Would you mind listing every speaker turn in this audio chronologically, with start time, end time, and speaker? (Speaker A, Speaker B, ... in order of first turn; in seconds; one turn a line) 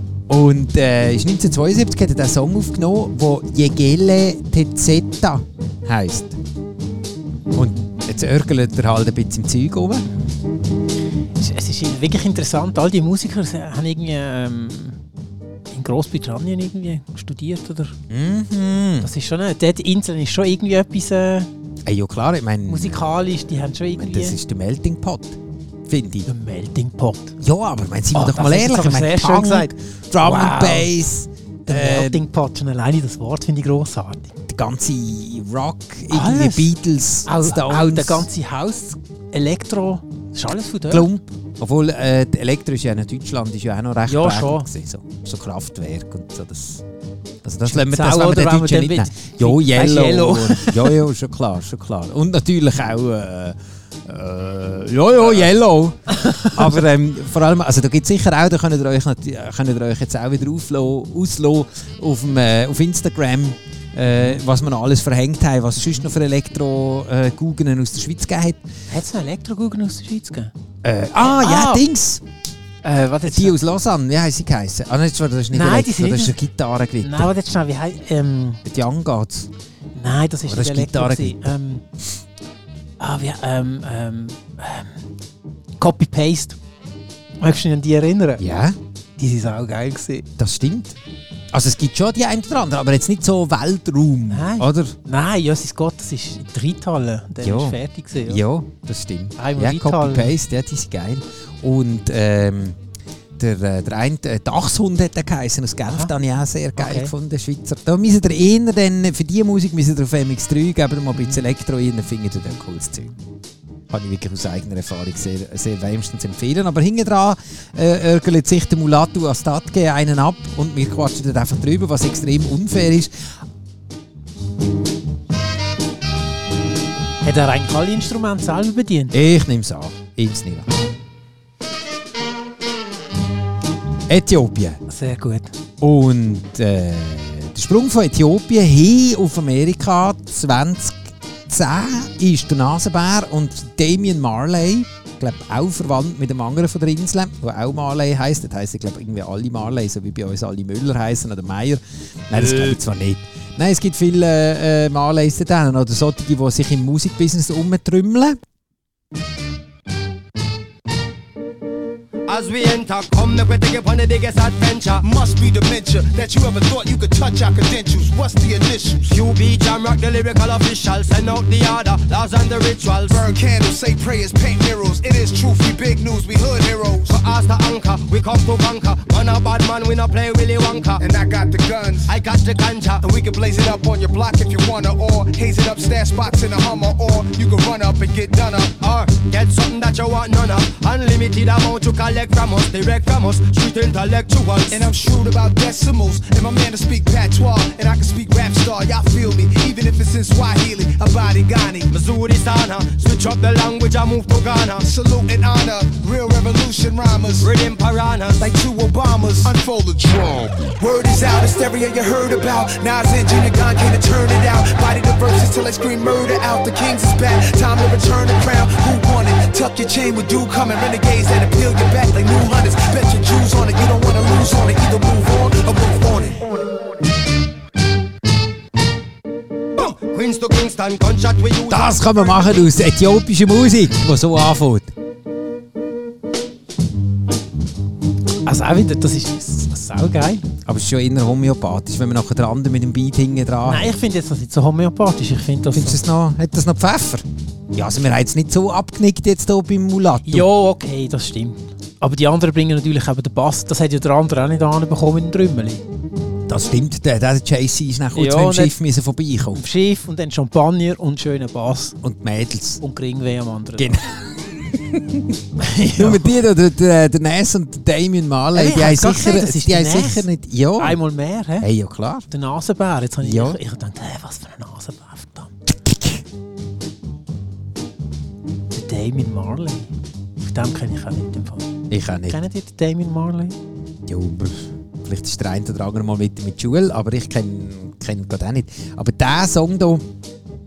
Speaker A: 0.3-6.4
Speaker A: 7.5-10.1
Speaker B: 11.4-15.0
Speaker B: 15.7-18.0
Speaker A: 18.1-19.1
Speaker B: 19.0-21.5
Speaker A: 21.9-23.1
Speaker B: 22.7-24.4
Speaker A: 24.0-26.3
Speaker B: 26.3-27.4
Speaker A: 27.4-32.2
Speaker B: 28.1-30.9
Speaker B: 31.7-34.3
Speaker A: 34.5-38.3
Speaker B: 36.1-41.1
Speaker A: 40.9-46.8
Speaker B: 44.1-44.7
Speaker A: 47.4-68.6
Speaker B: 47.6-51.0
Speaker B: 56.1-56.8
Speaker B: 68.9-70.5
Speaker A: 70.8-72.2
Speaker B: 71.2-71.8
Speaker B: 72.8-73.6
Speaker A: 73.3-77.3
Speaker B: 75.5-76.4
Speaker B: 77.0-78.6
Speaker A: 78.7-79.5
Speaker B: 80.0-81.8
Speaker A: 80.5-81.5
Speaker B: 83.0-85.0
Speaker B: 85.8-86.6
Speaker B: 87.4-88.4
Speaker A: 88.4-88.8
Speaker B: 89.2-90.3
Speaker A: 90.4-91.0
Speaker A: 91.5-95.0
Speaker B: 94.3-98.4
Speaker A: 97.4-102.8
Speaker B: 99.4-100.3
Speaker A: 103.4-113.1
Speaker B: 106.8-107.1
Speaker A: 113.9-123.3
Speaker B: 127.2-129.2
Speaker A: 129.1-130.7
Speaker A: 134.1-134.8
Speaker B: 134.9-135.5
Speaker A: 135.8-158.4
Speaker C: 162.3-165.1
Speaker D: 165.0-169.1
Speaker C: 169.1-173.3
Speaker D: 173.1-177.2
Speaker C: 177.1-181.1
Speaker D: 181.0-182.1
Speaker C: 182.1-183.1
Speaker D: 183.0-189.2
Speaker C: 189.1-194.9
Speaker D: 194.7-201.9
Speaker C: 201.9-204.9
Speaker D: 204.8-207.5
Speaker C: 207.4-208.5
Speaker D: 208.4-226.4
Speaker C: 229.8-232.5
Speaker A: 231.7-234.9
Speaker B: 238.4-240.5
Speaker A: 240.7-244.0
Speaker B: 243.7-246.0
Speaker A: 245.7-250.5
Speaker B: 250.2-255.8
Speaker A: 256.5-259.6
Speaker B: 258.1-258.8
Speaker B: 259.5-262.0
Speaker A: 262.0-262.8
Speaker B: 262.8-264.0
Speaker A: 263.8-265.4
Speaker B: 265.6-266.4
Speaker A: 266.0-271.0
Speaker B: 268.5-271.7
Speaker A: 271.6-272.3
Speaker B: 272.3-275.5
Speaker A: 273.2-273.6
Speaker A: 275.7-276.2
Speaker B: 278.7-279.9
Speaker B: 280.4-281.7
Speaker A: 281.9-282.4
Speaker B: 282.3-283.6
Speaker A: 284.1-290.0